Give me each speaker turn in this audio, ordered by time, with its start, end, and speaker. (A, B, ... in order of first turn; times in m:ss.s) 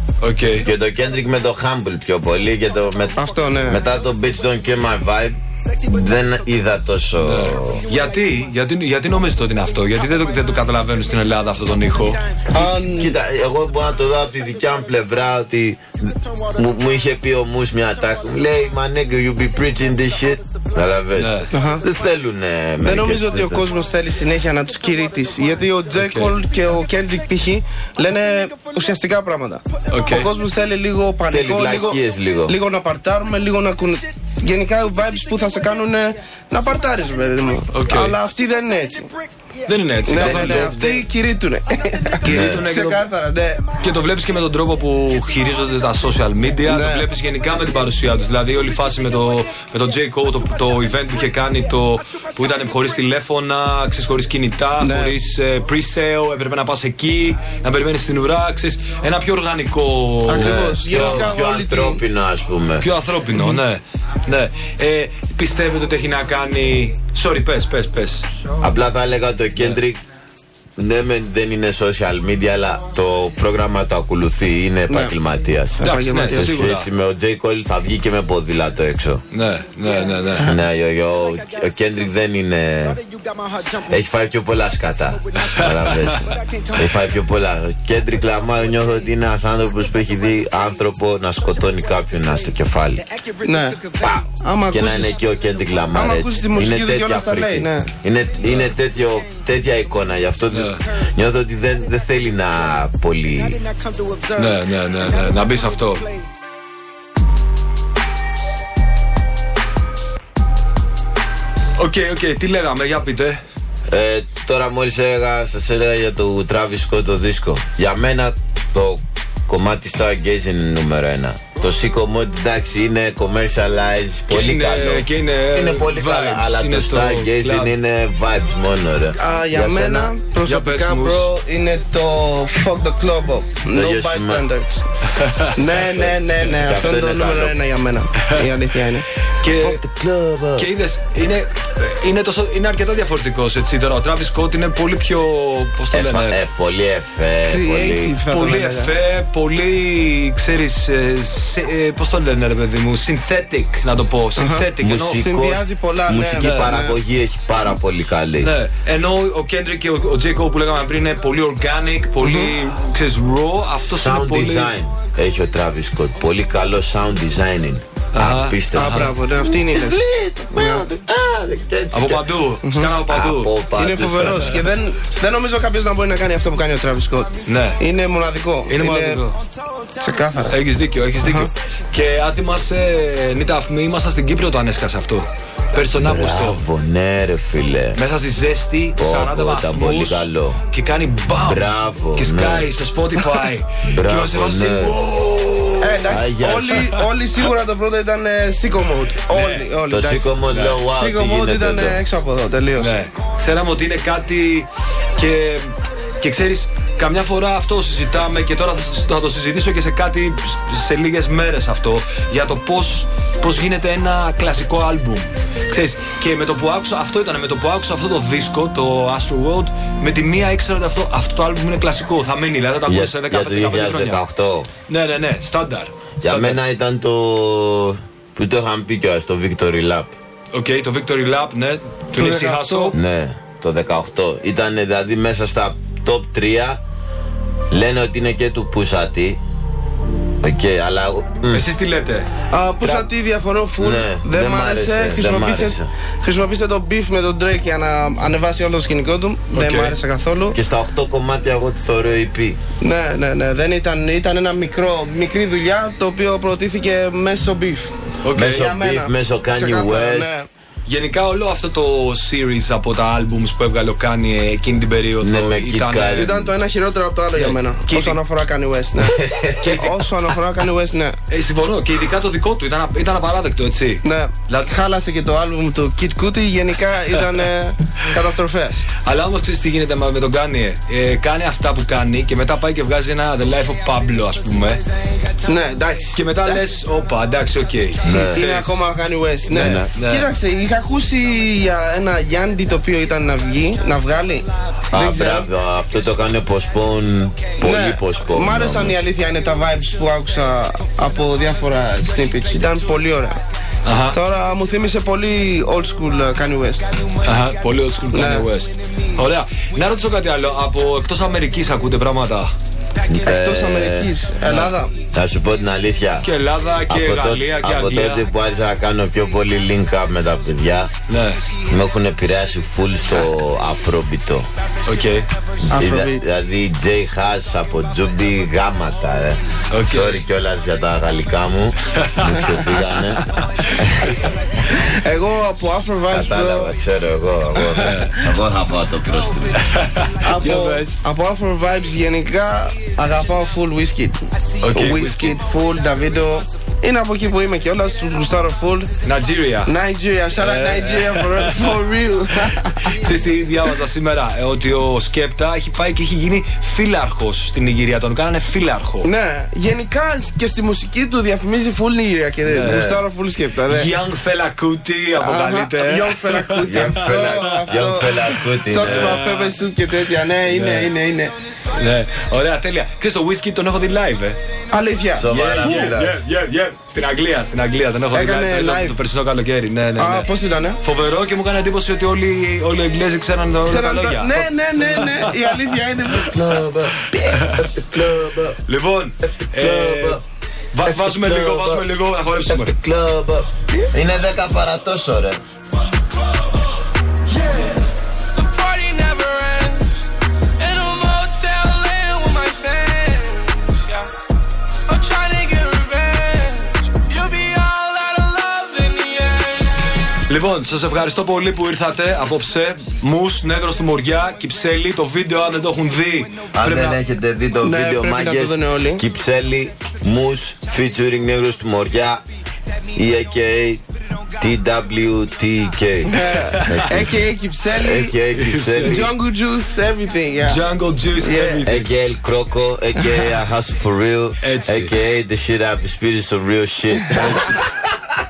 0:00.2-0:00.7 A
0:00.4-0:07.8 B
0:03.2-0:03.8 C
0:07.2-0:12.2 A
0:10.0-0:10.6 D
0:12.5-0:13.2 C
0:12.5-0:23.7 B
0:14.2-0:14.9 D
0:16.2-0:16.8 D
0:19.9-0:20.4 D
0:21.1-0:21.5 A
0:21.5-0:21.8 C
0:22.8-0:39.1 C
0:25.9-0:26.3 A
0:29.9-0:30.3 A
0:31.3-0:32.6 B
0:35.0-0:35.9 D
0:37.7-0:38.2 A
0:39.0-0:41.0 D
0:39.6-0:41.0 A
0:40.0-0:43.7 C
0:42.2-0:43.0 A
0:42.2-0:42.6 B
0:43.8-1:01.3 A
0:46.6-0:47.1 C
0:49.0-0:49.5 D
0:52.1-0:52.7 D
0:54.8-0:55.2 C
1:00.2-1:02.0 C
1:00.3-1:02.8 B
1:02.8-1:08.2 A
1:08.6-1:10.0 B
1:10.8-1:19.2 B
1:14.9-1:15.1 C
1:15.8-1:16.7 C
1:15.8-1:16.9 A
1:19.3-1:20.5 A
1:19.8-1:20.6 D
1:20.4-1:23.0 B
1:21.1-1:22.1 D
1:22.8-1:24.0 D
1:23.9-1:33.0 B
1:25.1-1:27.2 D
1:25.5-1:26.3 A
1:28.2-1:29.1 D
1:29.7-1:30.8 D
1:31.4-1:36.0 D
1:33.4-1:33.8 C
1:34.0-1:43.6 B
1:34.4-1:35.2 C
1:35.9-1:37.9 C
1:39.2-1:41.1 D
1:40.5-1:40.8 A
1:43.3-1:46.3 D
1:44.3-1:46.0 A
1:51.8-1:53.4 A
1:53.9-2:10.1 B
2:04.3-2:07.7 A
2:09.2-2:14.9 C
2:10.4-2:11.3 A
2:13.7-2:14.5 B
2:15.1-2:15.5 A
2:15.4-2:19.1 C
2:15.6-2:17.6 B
2:18.2-2:18.5 A
2:19.4-2:19.8 A
2:19.5-2:20.7 B
2:20.5-2:26.4 A
2:25.9-2:28.2 B
2:27.4-2:28.9 C
2:28.3-2:35.2 A
2:34.4-2:37.0 C
2:34.8-2:38.5 B
2:36.4-2:36.8 A
2:38.4-2:44.7 A
2:42.2-2:42.5 C
2:43.8-2:52.3 B
2:48.1-2:49.2 A
2:48.7-2:50.0 C
2:50.5-2:50.9 C
2:51.9-2:53.6 A
2:52.6-2:52.9 C
2:53.1-2:54.6 B
2:53.7-2:59.2 C
2:57.5-2:57.8 A
2:58.6-2:59.4 A
3:00.0-3:00.6 C
3:00.5-3:06.6 A
3:01.2-3:01.5 C
3:05.8-3:08.0 B
3:07.9-3:16.2 A
3:09.0-3:10.6 B
3:11.4-3:12.7 B
3:13.8-3:15.0 B
3:15.8-3:20.4 C
3:16.1-3:16.9 B
3:19.3-3:19.7 A
3:19.9-3:22.0 B
3:20.5-3:20.8 A
3:20.9-3:23.0 C
3:22.8-3:44.2 A
3:42.8-3:44.7 B
3:44.9-3:46.6 A
3:46.2-3:50.1 B
3:50.5-3:53.0 A
3:52.1-3:52.9 C
3:52.9-3:56.8 B
3:57.7-3:59.4 B
4:00.4-4:01.6 B
4:01.5-4:02.3 A
4:02.5-4:10.6 C
4:02.8-4:03.1 B
4:03.8-4:05.9 B
4:09.5-4:10.0 A
4:10.5-4:12.6 B
4:12.8-4:20.5 C
4:18.2-4:18.7 A
4:18.3-4:20.3 B
4:20.8-4:26.4 A
4:25.2-4:26.5 B
4:26.1-4:31.2 C
4:27.3-4:28.2 A
4:29.0-4:29.8 B
4:29.6-4:30.1 A
4:31.3-4:34.7 A
4:34.0-4:38.8 C
4:39.0-4:44.8 A
4:45.4-4:46.6 C
4:46.2-4:48.8 A
4:48.0-4:48.4 B
4:48.1-4:55.5 C
4:49.4-4:50.3 A
4:49.5-4:49.9 B
4:54.9-4:59.0 B
4:57.6-5:03.4 C
5:03.8-5:04.2 A
5:04.1-5:07.0 C
5:07.2-5:12.5 A
5:08.1-5:08.5 C
5:13.1-5:14.1 B
5:13.2-5:14.9 C
5:14.4-5:14.7 A
5:15.0-5:16.3 B
5:16.2-5:18.2 A
5:16.9-5:20.9 B
5:21.1-5:21.4 A
5:21.6-5:24.5 B
5:24.8-5:25.3 A
5:25.6-5:34.3 B
5:25.7-5:26.2 C
5:29.7-5:30.2 A
5:31.9-5:32.8 A
5:33.6-5:34.1 A
5:34.7-5:36.7 C
5:36.1-5:39.6 B
5:37.6-5:38.1 C
5:37.8-5:38.2 A
5:39.5-5:41.0 A
5:40.2-5:48.9 C
5:44.6-5:45.4 A
5:49.0-5:49.7 A
5:49.6-5:53.0 C
5:50.4-5:51.8 A
5:52.4-5:59.1 A
5:59.0-6:03.9 C
6:02.5-6:03.0 A
6:02.6-6:03.0 B
6:03.7-6:08.3 A
6:05.2-6:08.1 C
6:06.6-6:09.2 B
6:08.7-6:11.3 C
6:08.8-6:09.6 A
6:10.4-6:10.9 A
6:11.7-6:14.4 A
6:14.7-6:15.9 C
6:15.1-6:16.2 B
6:15.3-6:20.3 A
6:18.1-6:19.0 C
6:20.0-6:20.8 C
6:20.8-6:25.8 A
6:23.6-6:26.4 C
6:26.1-6:28.6 B
6:27.0-6:27.7 A
6:28.7-6:30.2 A
6:29.2-6:30.2 B
6:30.7-6:32.8 A
6:30.8-6:35.4 B
6:37.3-6:37.7 D
6:38.3-6:40.1 D
6:40.6-6:44.1 D
6:44.9-6:49.8 D
6:50.3-6:57.0 A
6:56.5-7:02.2 B
6:57.6-6:59.0 C
7:02.9-7:03.8 B
7:04.4-7:07.2 B
7:06.0-7:08.1 C
7:06.5-7:06.8 A
7:07.7-7:09.1 B
7:08.3-7:09.1 A
7:08.8-7:10.6 C
7:10.4-7:11.9 A
7:11.2-7:11.6 C
7:11.6-7:18.0 B
7:14.4-7:14.9 A
7:17.1-7:17.5 A